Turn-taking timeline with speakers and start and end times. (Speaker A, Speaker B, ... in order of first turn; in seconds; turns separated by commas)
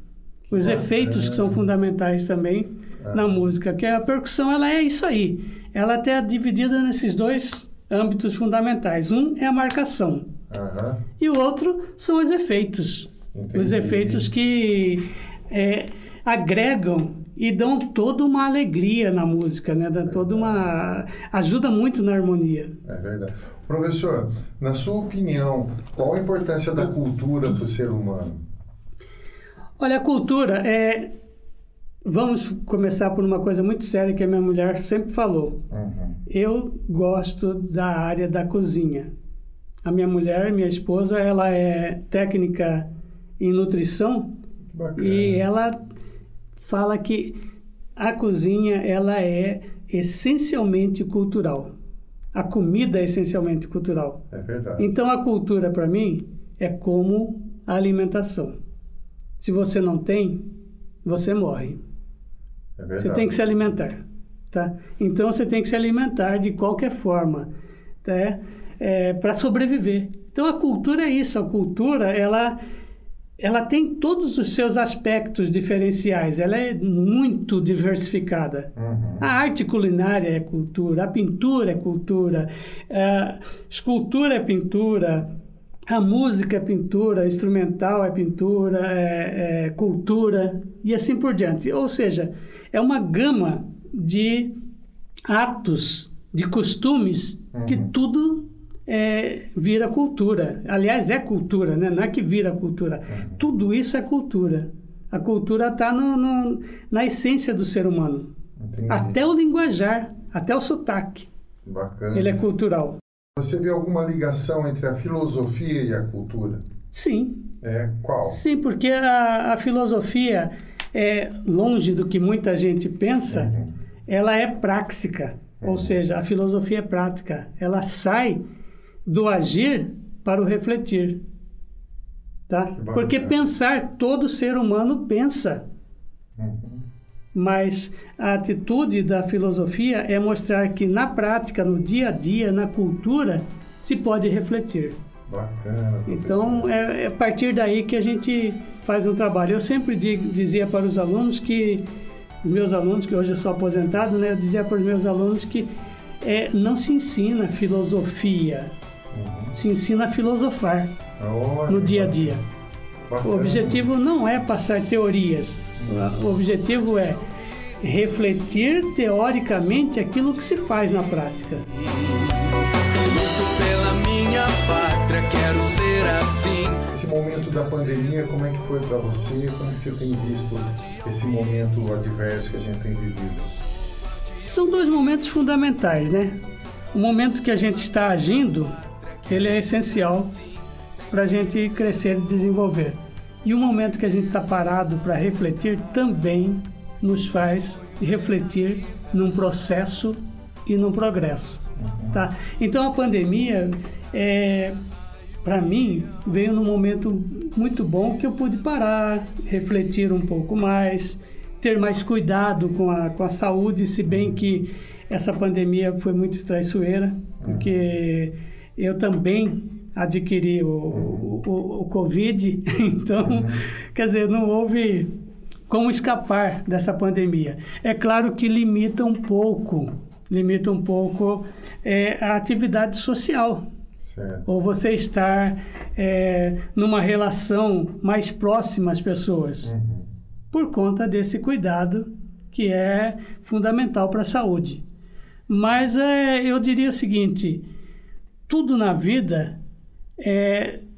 Speaker A: 0.5-1.6, Speaker B: 0.5-10.3, Speaker A: 3.0-3.4, Speaker A: 10.5-11.0, Speaker B: 11.2-22.7, Speaker A: 13.3-14.3, Speaker A: 20.1-20.7, Speaker A: 22.9-28.4, Speaker B: 29.8-31.1, Speaker B: 32.0-35.6, Speaker A: 35.7-36.2, Speaker B: 36.3-39.1, Speaker B: 39.8-42.9, Speaker B: 43.4-44.3, Speaker A: 44.7-45.5, Speaker B: 45.0-45.8, Speaker B: 46.6-47.4, Speaker B: 48.0-51.7, Speaker B: 52.4-54.2, Speaker A: 54.3-55.0, Speaker B: 54.8-58.6, Speaker B: 59.4-60.5, Speaker B: 61.0-61.8, Speaker A: 62.8-63.6, Speaker B: 63.0-67.5, Speaker B: 68.0-72.6, Speaker B: 73.4-85.3, Speaker A: 78.8-79.2, Speaker B: 85.9-94.5, Speaker B: 95.3-108.3, Speaker A: 97.5-97.9, Speaker A: 103.1-103.4, Speaker A: 108.6-109.2, Speaker B: 108.9-111.3, Speaker A: 111.7-112.4, Speaker B: 112.1-113.0, Speaker A: 113.4-116.6, Speaker B: 116.9-117.5, Speaker A: 117.6-118.4, Speaker B: 118.2-123.5, Speaker A: 123.3-123.7, Speaker B: 124.1-128.4, Speaker A: 125.6-126.0, Speaker B: 129.1-131.2, Speaker B: 132.5-135.6, Speaker A: 132.7-133.4, Speaker A: 136.4-136.8, Speaker B: 137.3-145.0, Speaker A: 145.3-146.7, Speaker B: 146.1-151.9, Speaker B: 152.4-155.7, Speaker B: 156.2-158.7, Speaker A: 159.1-159.5, Speaker B: 159.5-160.9, Speaker A: 161.2-162.4, Speaker B: 161.7-162.4, Speaker A: 163.1-163.9, Speaker B: 163.2-167.2, Speaker A: 165.8-166.1, Speaker B: 167.8-171.7, Speaker C: 171.8-176.9, Speaker A: 176.9-183.5, Speaker B: 184.3-186.4, Speaker B: 186.9-190.3, Speaker A: 189.3-189.5, Speaker B: 191.1-204.8, Speaker A: 201.8-202.2, Speaker B: 205.4-225.1, Speaker A: 217.4-217.8, Speaker A: 220.9-221.3, Speaker A: 223.2-223.6, Speaker B: 225.7-233.7, Speaker A: 234.0-234.5, Speaker B: 234.5-239.7, Speaker A: 239.6-240.1, Speaker B: 240.5-244.8, Speaker B: 245.5-247.7, Speaker B: 248.5-249.6, Speaker B: 250.2-250.8